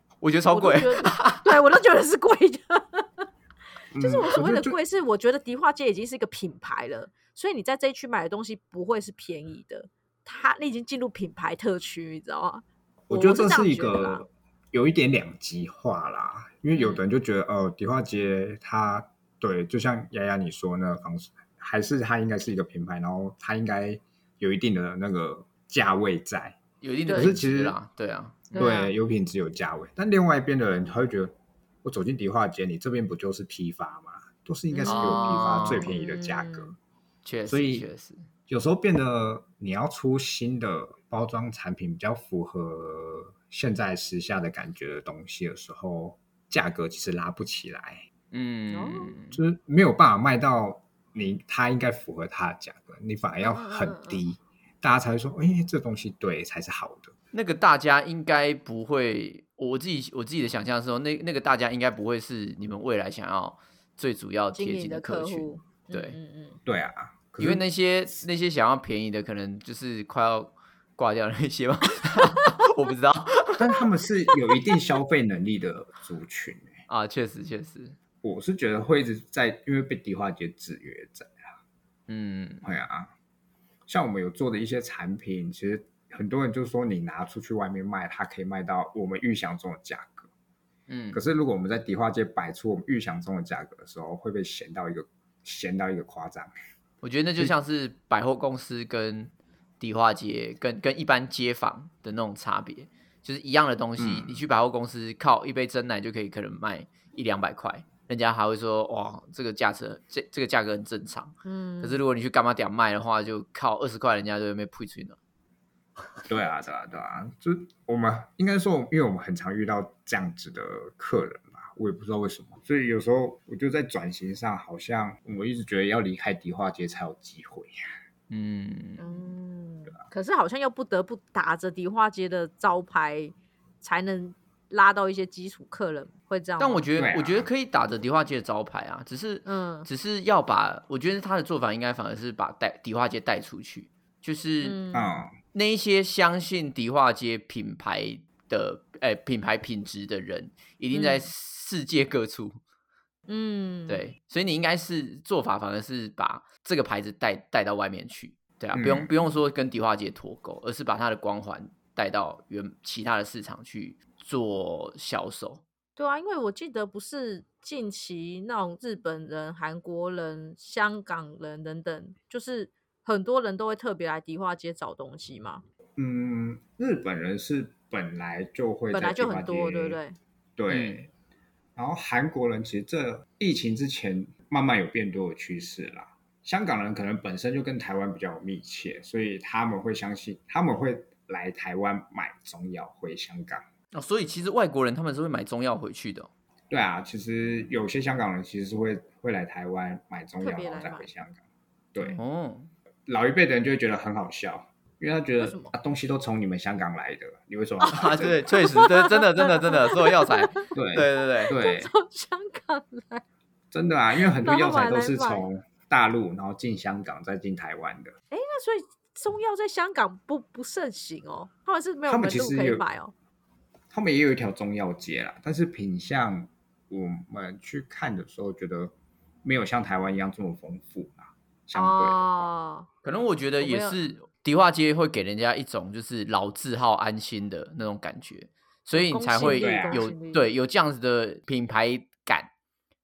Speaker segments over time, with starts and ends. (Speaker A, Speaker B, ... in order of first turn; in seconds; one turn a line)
Speaker A: 0.2-1.5
Speaker B: 0.5-3.3
Speaker C: 3.9-4.8
Speaker B: 4.0-14.2
Speaker C: 13.1-27.8
Speaker B: 16.8-17.0
Speaker A: 26.8-28.8
Speaker B: 27.1-27.3
Speaker C: 28.5-36.7
Speaker B: 28.6-28.9
Speaker B: 34.7-36.8
Speaker A: 34.9-35.9
Speaker A: 37.2-38.3
Speaker C: 37.5-37.9
Speaker C: 38.5-48.0
Speaker A: 48.3-49.4
Speaker B: 48.7-49.1
Speaker C: 49.3-57.1
Speaker B: 53.4-54.2
Speaker A: 57.3-66.2
Speaker B: 64.5-66.6
Speaker C: 66.7-67.6
Speaker A: 67.4-73.8
Speaker C: 73.6-76.8
Speaker A: 76.9-78.0
Speaker C: 78.2-81.5
Speaker A: 82.1-82.6
Speaker C: 82.6-83.1
Speaker C: 83.9-90.3
Speaker A: 90.9-91.2
Speaker C: 91.1-96.5
Speaker A: 97.0-115.2
Speaker C: 104.0-104.4
Speaker B: 111.5-112.0
Speaker C: 116.3-127.8
Speaker A: 128.3-129.0
Speaker B: 129.0-136.8
Speaker A: 136.6-144.8
Speaker C: 137.0-137.5
Speaker B: 139.5-139.9
Speaker B: 144.6-145.1
Speaker C: 144.9-145.3
Speaker A: 145.5-152.6
Speaker B: 150.9-151.3
Speaker B: 153.3-154.1
Speaker A: 153.9-165.6
Speaker C: 158.7-159.1
Speaker B: 166.0-175.6
Speaker C: 176.0-180.0
Speaker B: 178.9-180.2
Speaker C: 180.6-181.1
Speaker A: 180.7-181.0
Speaker C: 181.8-193.6
Speaker A: 193.9-196.3
Speaker C: 196.7-201.4
Speaker B: 200.4-201.1
Speaker A: 202.2-202.7
Speaker C: 203.1-208.4
Speaker B: 205.4-205.7
Speaker A: 207.9-211.5
Speaker B: 208.0-210.7
Speaker C: 210.7-211.9
Speaker B: 211.5-213.2
Speaker C: 213.7-218.1
Speaker B: 214.4-215.4
Speaker B: 218.3-223.1
Speaker C: 222.1-222.8
Speaker C: 223.9-228.9
Speaker C: 229.4-232.5
Speaker B: 231.7-232.9
Speaker A: 233.0-242.5
Speaker B: 233.6-234.0
Speaker B: 238.9-240.5
Speaker C: 239.4-240.1